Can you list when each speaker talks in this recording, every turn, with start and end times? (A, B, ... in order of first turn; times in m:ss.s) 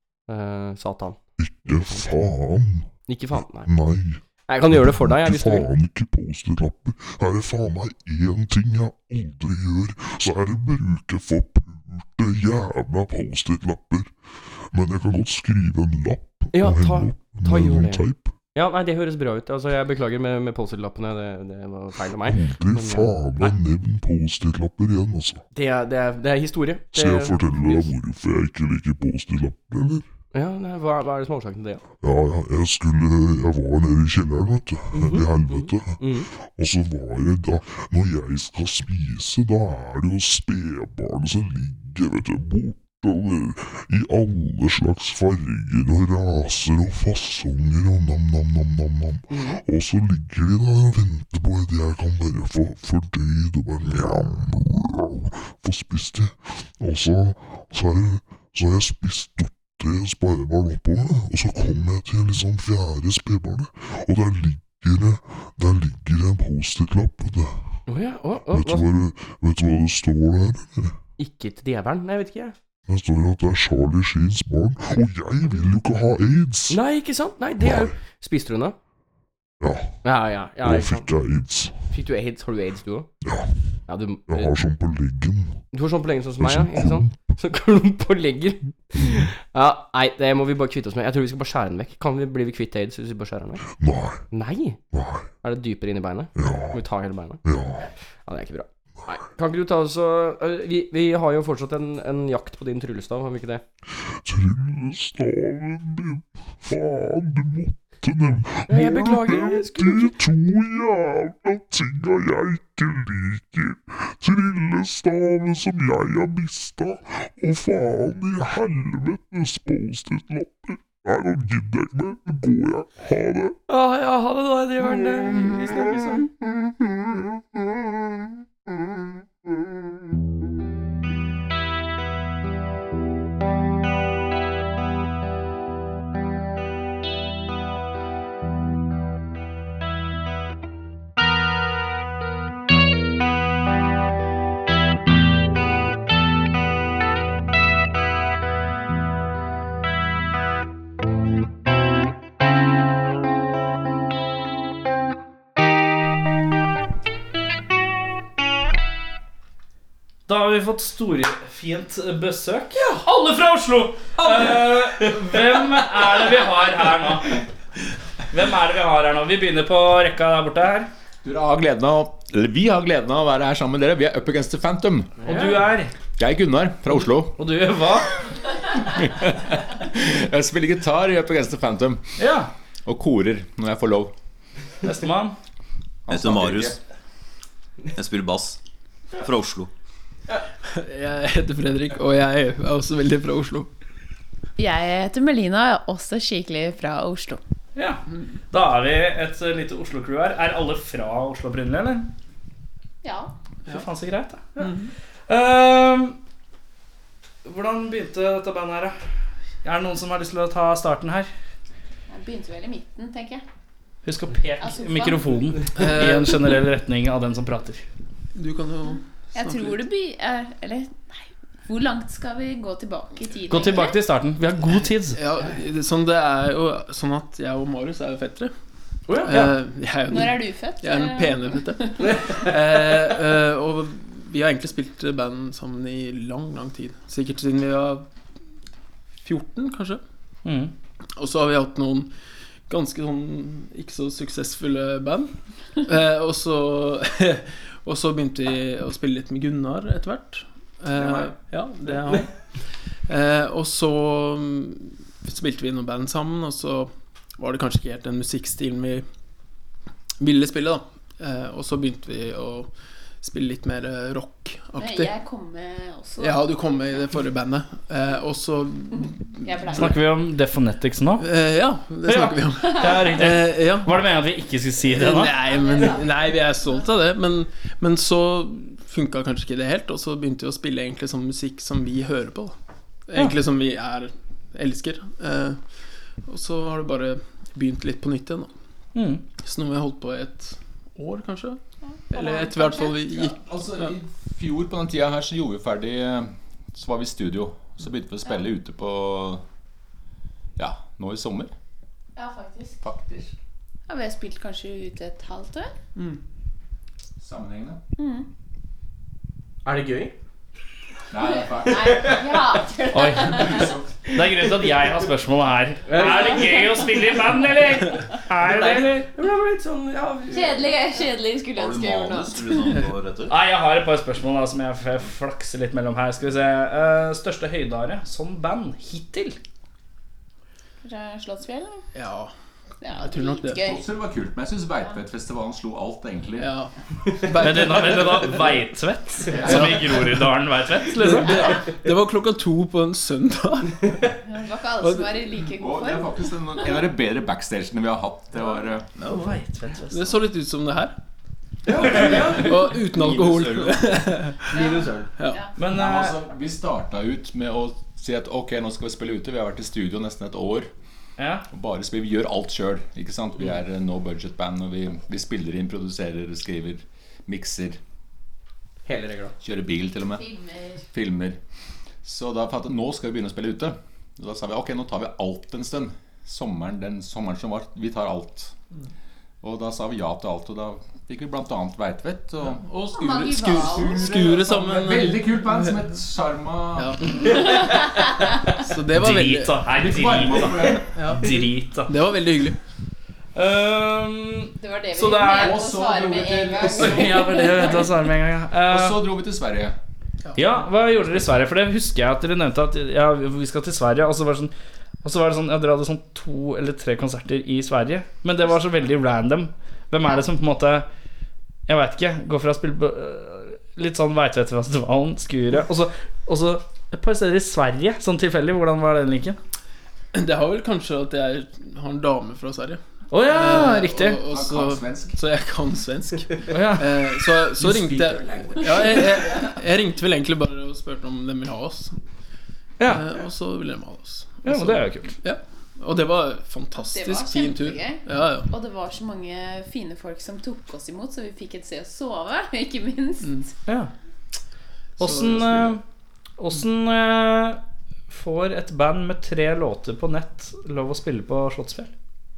0:00.3-0:01.2 A
0:01.4-0:02.9 B
0:03.1-0:03.7 A
0:03.6-0:14.1 B
0:04.5-0:05.7 A
0:14.7-0:18.3 B
0:16.5-0:18.0 A
0:18.5-0:23.5 A
0:22.2-0:25.4 B
0:25.5-0:27.9 A
0:26.9-0:30.0 B
0:30.3-0:31.8 A
0:32.0-1:07.8 B
0:34.9-0:36.3 A
0:49.3-0:49.6 A
1:07.9-1:08.9 A
1:08.5-1:11.0 B
1:11.2-1:12.6 A
1:12.9-1:16.8 B
1:16.7-1:18.8 A
1:17.6-1:17.9 B
1:19.6-1:20.0 B
1:20.0-1:21.1 A
1:20.6-1:21.9 B
1:21.9-1:23.1 A
1:23.2-1:25.6 B
1:23.9-1:24.5 A
1:25.7-1:33.6 A
1:26.4-1:27.2 B
1:33.8-1:34.2 B
1:34.3-1:34.8 A
1:34.9-1:35.3 B
1:35.4-1:37.4 A
1:36.4-1:36.8 B
1:37.4-1:37.9 B
1:38.2-1:43.6 A
1:44.0-2:03.6 B
1:48.7-1:50.1 A
2:03.7-2:06.3 A
2:40.3-2:47.4 C
2:48.3-2:50.9 C
2:51.2-2:55.2 D
2:55.2-2:55.6 A
2:55.2-2:55.9 C
2:56.2-2:57.4 D
2:57.4-2:58.2 C
2:58.8-3:02.0 D
3:02.2-3:02.5 C
3:02.8-3:04.1 D
3:04.8-3:05.4 C
3:06.1-3:06.8 D
3:06.1-3:06.8 E
3:07.9-3:08.6 E
3:09.2-3:09.7 E
3:10.7-3:13.7 F
3:14.6-3:17.4 G
3:17.7-3:22.1 C
3:23.0-3:23.3 G
3:23.7-3:24.5 C
3:24.6-3:24.9 F
3:25.3-3:26.2 C
3:27.4-3:28.9 C
3:29.6-3:31.3 C
3:32.1-3:33.4 G
3:34.0-3:37.8 C
3:34.6-3:35.4 G
3:35.7-3:36.4 F
3:38.3-3:39.8 F
3:39.3-3:44.0 G
3:43.5-3:45.2 C
3:45.1-3:48.5 F
3:49.2-3:58.0 F
3:49.3-3:49.5 C
3:50.1-3:52.2 G
3:59.2-4:00.0 F
4:00.4-4:00.7 C
4:01.2-4:02.1 F
4:02.7-4:12.3 F
4:11.0-4:11.3 D
4:13.1-4:19.0 F
4:20.2-4:22.7 F
4:23.2-4:25.1 F
4:24.8-4:26.5 G
4:26.2-4:29.9 F
4:29.4-4:29.9 G
4:29.7-4:31.3 C
4:31.2-4:34.0 F
4:32.1-4:35.4 C
4:34.9-4:42.5 F
4:35.5-4:36.1 G
4:43.1-4:45.6 F
4:46.2-4:48.5 F
4:48.9-4:49.2 C
4:49.4-4:51.6 F
4:51.9-4:53.0 G
4:52.1-4:53.9 F
4:53.1-4:59.4 D
5:00.6-5:01.5 D
5:02.2-5:02.8 G
5:02.8-5:03.3 D
5:03.9-5:05.7 G
5:07.2-5:07.8 D
5:08.0-5:08.3 G
5:09.6-5:10.1 A
5:11.1-5:12.3 D
5:11.2-5:13.8 G
5:12.9-5:19.1 C
5:13.3-5:13.8 D
5:15.9-5:16.8 A
5:18.4-5:20.7 A
5:20.3-5:22.6 G
5:21.5-5:23.4 E
5:23.3-5:29.4 C
5:30.8-5:31.8 G
5:31.9-5:32.3 F
5:32.8-5:33.8 G
5:33.0-5:33.6 F
5:33.6-5:36.5 D
5:36.4-5:38.4 F
5:37.4-5:41.6 C
5:39.3-5:39.8 D
5:39.4-5:40.1 F
5:40.9-5:44.2 F
5:44.2-5:46.2 G
5:44.8-5:45.2 F
5:45.6-5:48.9 D
5:49.0-5:49.2 E
5:49.0-5:50.2 C
5:49.9-5:51.0 F
5:51.6-5:52.8 A
5:51.9-5:55.4 F
5:53.0-5:53.6 E
5:54.5-5:55.1 A
5:54.5-5:55.5 G
5:55.6-5:56.2 C
5:55.6-6:00.7 D
6:01.2-6:01.4 C
6:01.5-6:07.8 D
6:08.8-6:09.3 A
6:09.4-6:10.3 D
6:10.1-6:10.8 G
6:10.9-6:11.4 D
6:12.0-6:18.5 D
6:19.4-6:27.3 D
6:22.5-6:25.8 F
6:22.9-6:24.0 G
6:26.8-6:27.8 F
6:28.5-6:29.7 F
6:28.9-6:32.0 C
6:29.7-6:31.1 D
6:30.9-6:32.6 F
6:33.3-6:35.6 C
6:34.6-6:37.9 G
6:35.1-6:37.8 D
6:36.7-6:39.0 C
6:38.6-6:39.8 D
6:40.2-6:40.5 F
6:40.4-6:50.9 C
6:51.7-6:59.4 C
7:00.1-7:11.9 F
7:03.1-7:04.2 C
7:04.2-7:05.2 D
7:06.5-7:07.0 C
7:07.7-7:09.1 A
7:12.8-7:13.0 C
7:12.8-7:18.5 F
7:14.4-7:15.2 C
7:16.9-7:23.5 G
7:25.0-7:25.8 C
7:25.0-7:25.8 F
7:26.4-7:31.9 C